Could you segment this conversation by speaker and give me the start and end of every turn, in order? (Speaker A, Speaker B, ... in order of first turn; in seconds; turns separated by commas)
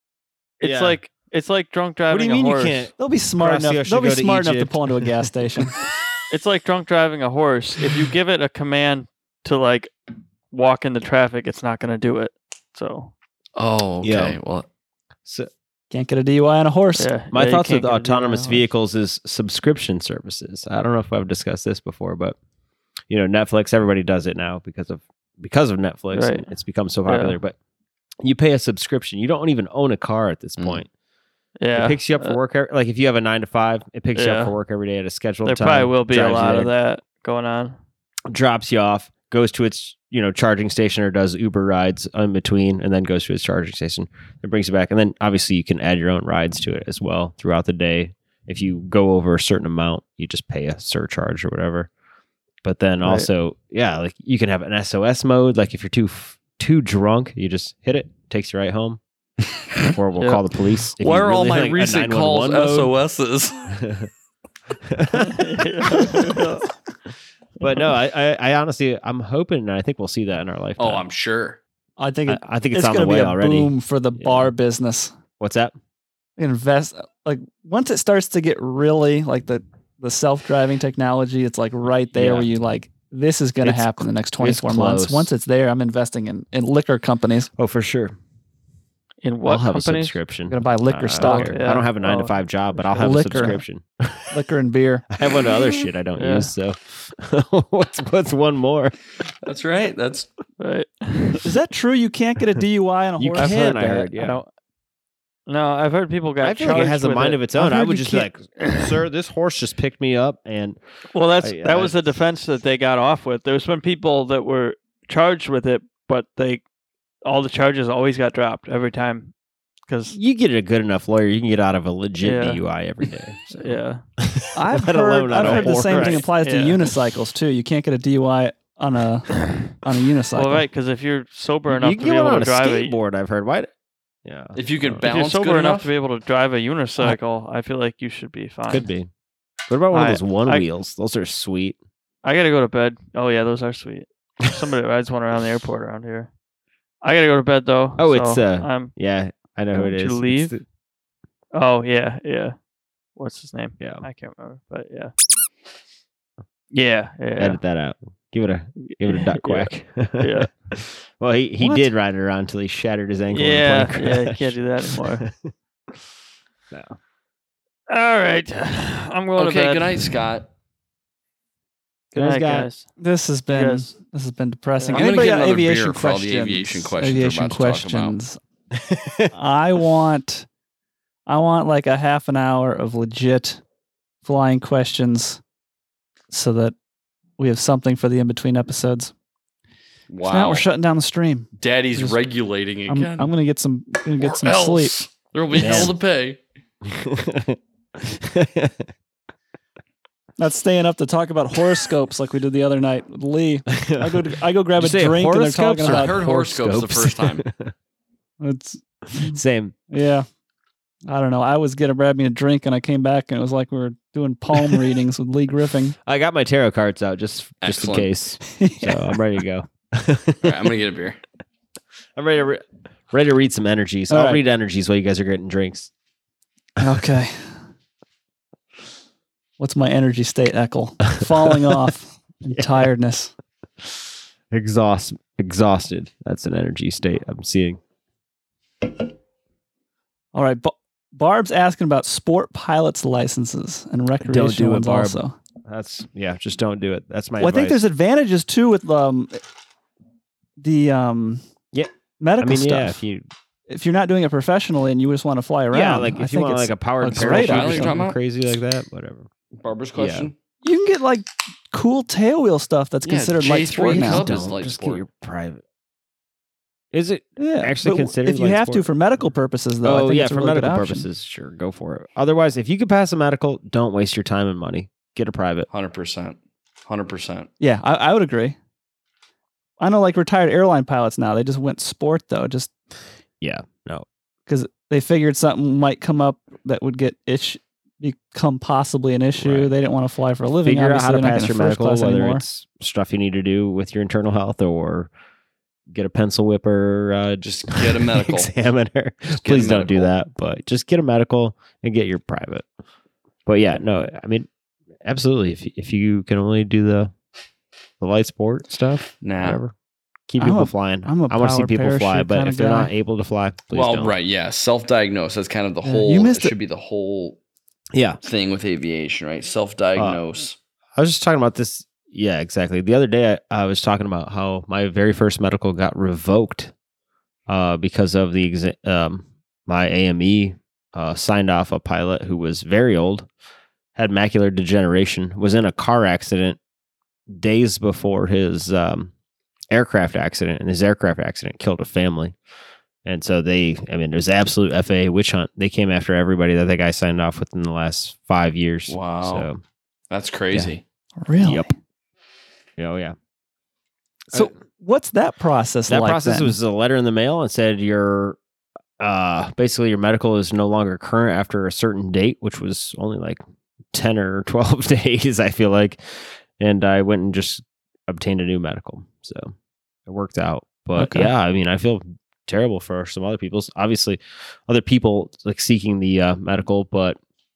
Speaker A: 0.6-2.9, Speaker B: 0.6-1.0, Speaker B: 2.1-5.3, Speaker C: 3.0-5.7, Speaker A: 6.3-9.9, Speaker A: 10.5-13.1, Speaker D: 13.6-14.7, Speaker B: 14.0-14.4, Speaker C: 15.9-17.1, Speaker A: 17.0-18.6, Speaker B: 17.3-22.4, Speaker B: 23.1-27.6, Speaker A: 26.1-26.5, Speaker A: 27.1-27.3, Speaker B: 28.2-30.9, Speaker D: 30.6-30.8, Speaker A: 31.6-32.4, Speaker B: 31.7-36.7, Speaker A: 34.1-34.5, Speaker A: 35.4-37.8, Speaker B: 38.3-51.9, Speaker B: 52.6-59.0, Speaker A: 53.0-53.3, Speaker B: 59.8-62.9, Speaker A: 60.1-60.4, Speaker D: 61.0-63.8, Speaker B: 63.7-64.1, Speaker B: 64.9-65.7, Speaker A: 65.1-66.7, Speaker B: 67.6-71.0, Speaker D: 70.8-71.6, Speaker C: 72.0-75.1, Speaker B: 72.3-74.5, Speaker B: 75.4-75.7, Speaker C: 76.4-87.5, Speaker B: 82.1-82.5, Speaker B: 83.6-85.3, Speaker B: 87.6-88.1, Speaker A: 89.2-90.2, Speaker B: 89.4-94.3, Speaker C: 90.5-91.6, Speaker A: 91.2-93.6, Speaker C: 93.0-93.6, Speaker C: 94.3-95.0, Speaker B: 95.1-98.9, Speaker A: 96.2-96.5, Speaker D: 99.4-100.3, Speaker A: 100.6-101.5, Speaker C: 101.4-104.1, Speaker B: 103.2-104.4, Speaker A: 104.1-104.5, Speaker A: 105.5-107.4, Speaker B: 106.4-110.8, Speaker C: 107.5-108.3, Speaker A: 108.6-109.0, Speaker A: 111.1-116.6, Speaker B: 111.4-112.0, Speaker A: 117.2-119.3, Speaker A: 119.9-120.2, Speaker B: 120.1-123.6, Speaker A: 122.2-122.6, Speaker A: 123.5-124.0, Speaker B: 124.2-126.3, Speaker C: 124.5-130.7, Speaker A: 125.3-126.8, Speaker A: 130.3-133.0, Speaker B: 131.7-133.7, Speaker B: 134.2-135.0, Speaker D: 134.5-135.9, Speaker A: 134.9-138.9, Speaker B: 138.7-139.1, Speaker B: 139.7-141.8, Speaker A: 139.9-140.7, Speaker A: 142.2-146.3, Speaker A: 147.0-148.9, Speaker B: 148.0-150.6, Speaker A: 149.7-150.5, Speaker A: 151.5-152.6, Speaker A: 153.2-155.1, Speaker A: 156.7-157.6, Speaker B: 157.3-166.0, Speaker A: 158.9-160.5, Speaker C: 161.6-161.9, Speaker A: 163.3-165.3, Speaker B: 166.7-167.0, Speaker A: 167.9-170.1, Speaker D: 169.4-170.5, Speaker B: 172.1-172.7, Speaker A: 172.2-172.8, Speaker C: 173.0-178.4, Speaker A: 173.5-173.9, Speaker A: 174.8-175.3, Speaker D: 174.9-178.2, Speaker B: 178.7-179.3, Speaker C: 179.3-180.5, Speaker C: 181.3-183.6, Speaker C: 184.2-185.4, Speaker C: 186.3-186.7, Speaker C: 187.4-189.1, Speaker D: 190.1-190.7, Speaker C: 190.2-192.2, Speaker D: 191.6-193.3, Speaker C: 192.9-194.9, Speaker D: 194.2-196.4, Speaker B: 195.5-195.9, Speaker B: 196.8-198.9, Speaker C: 200.4-206.2, Speaker B: 203.7-204.1, Speaker B: 204.8-207.7, Speaker D: 205.8-207.4, Speaker C: 208.4-209.4, Speaker B: 209.2-209.7, Speaker C: 209.9-210.2, Speaker C: 211.1-215.9, Speaker B: 216.0-220.7, Speaker D: 217.6-218.1, Speaker C: 218.4-219.1, Speaker D: 220.4-221.2, Speaker B: 222.2-225.9, Speaker C: 224.1-224.4, Speaker C: 226.8-227.6, Speaker C: 229.6-233.3, Speaker B: 232.5-232.8, Speaker B: 234.5-237.8, Speaker C: 240.3-245.3, Speaker B: 244.2-247.8, Speaker C: 247.4-249.4, Speaker C: 250.6-251.4, Speaker B: 251.7-253.2, Speaker C: 252.2-253.0, Speaker C: 253.7-258.0, Speaker B: 255.7-259.3, Speaker D: 257.1-258.1, Speaker D: 259.6-260.4, Speaker B: 259.9-260.3, Speaker C: 260.6-264.3, Speaker D: 263.0-265.0, Speaker B: 263.8-265.6, Speaker B: 266.9-268.9, Speaker C: 267.4-271.1, Speaker B: 269.8-275.7, Speaker D: 275.7-277.5, Speaker C: 277.6-278.6, Speaker C: 279.8-282.7, Speaker B: 283.4-284.1, Speaker C: 284.5-292.4, Speaker B: 289.4-289.7, Speaker B: 290.6-295.1, Speaker B: 295.9-302.7, Speaker D: 297.4-298.5, Speaker D: 299.3-300.1, Speaker B: 303.4-304.5, Speaker B: 305.0-307.1, Speaker B: 308.0-309.7, Speaker D: 309.2-309.6, Speaker B: 310.3-314.1, Speaker C: 310.4-312.9, Speaker D: 313.7-317.4, Speaker C: 315.8-316.5, Speaker B: 317.9-318.2, Speaker D: 318.2-320.6, Speaker B: 319.9-320.2, Speaker B: 320.9-326.7, Speaker B: 327.5-333.3, Speaker B: 333.9-336.6, Speaker B: 337.3-339.1, Speaker B: 339.7-342.4, Speaker B: 343.0-349.6, Speaker D: 348.9-349.5, Speaker D: 350.1-350.8, Speaker C: 351.2-351.7, Speaker B: 351.4-351.7, Speaker B: 352.8-353.1, Speaker C: 354.3-356.6, Speaker B: 355.9-358.4, Speaker B: 359.0-363.4, Speaker B: 363.9-369.5, Speaker B: 370.1-377.2, Speaker C: 370.9-371.3